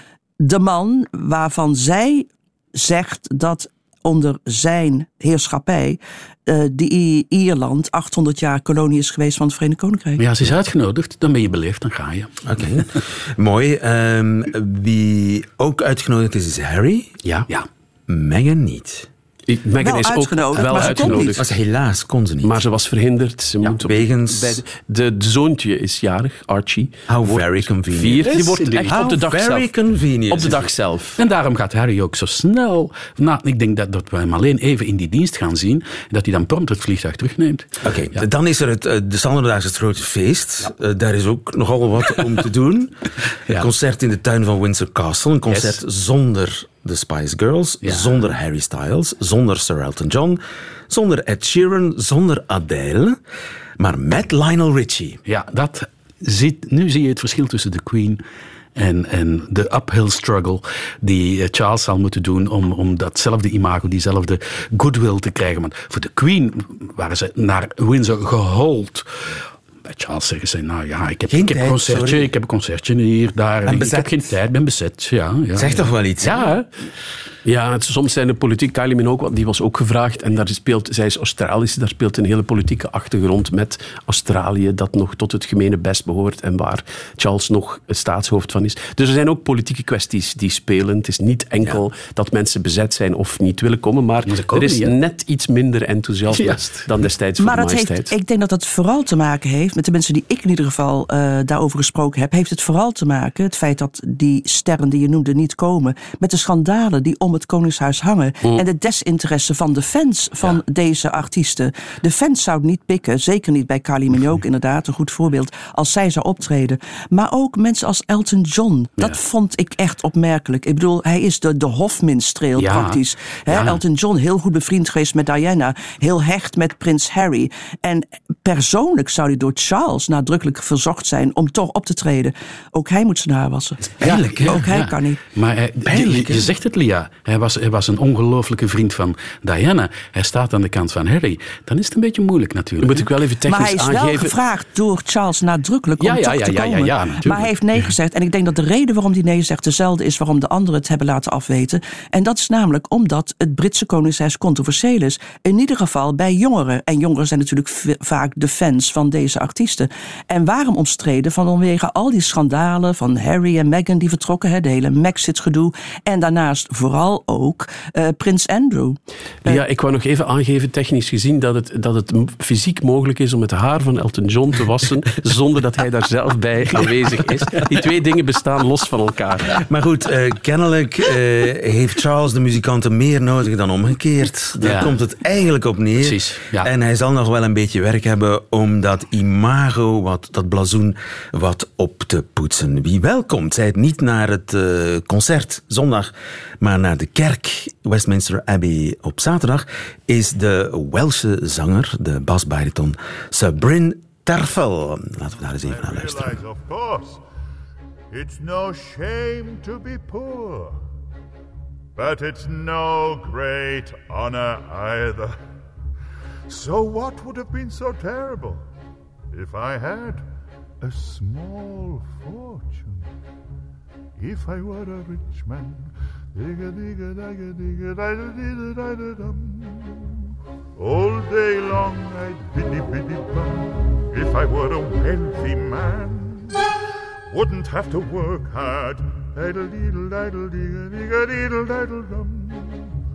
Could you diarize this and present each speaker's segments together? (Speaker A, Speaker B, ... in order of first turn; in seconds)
Speaker A: 0.4-10.2, 19.8-21.4, 97.4-135.2, 143.5-169.6
Speaker B: 10.2-12.4, 28.3-29.1, 31.2-38.2, 45.5-45.8, 47.8-48.1, 55.3-58.2, 58.8-69.3, 69.8-75.8, 94.3-94.9, 96.3-96.9, 122.6-123.8, 134.0-143.1, 146.0-147.9, 184.6-184.9, 186.0-186.7
Speaker C: 12.5-17.2, 18.1-19.1, 20.6-22.6, 23.8-24.6, 27.1-30.7, 37.8-53.2, 53.8-55.2, 71.3-72.3, 73.7-74.2, 75.5-76.5, 134.0-134.7, 135.9-136.5, 179.6-206.4
Speaker D: 19.5-21.5, 22.4-29.7, 30.3-31.2, 76.2-76.7, 77.5-98.1, 142.8-144.4, 169.5-179.6
Speaker E: 205.6-207.2, 208.1-210.8, 212.0-215.4, 216.5-218.7, 219.3-220.3, 220.8-223.1, 224.2-230.2, 230.8-236.7, 237.3-242.9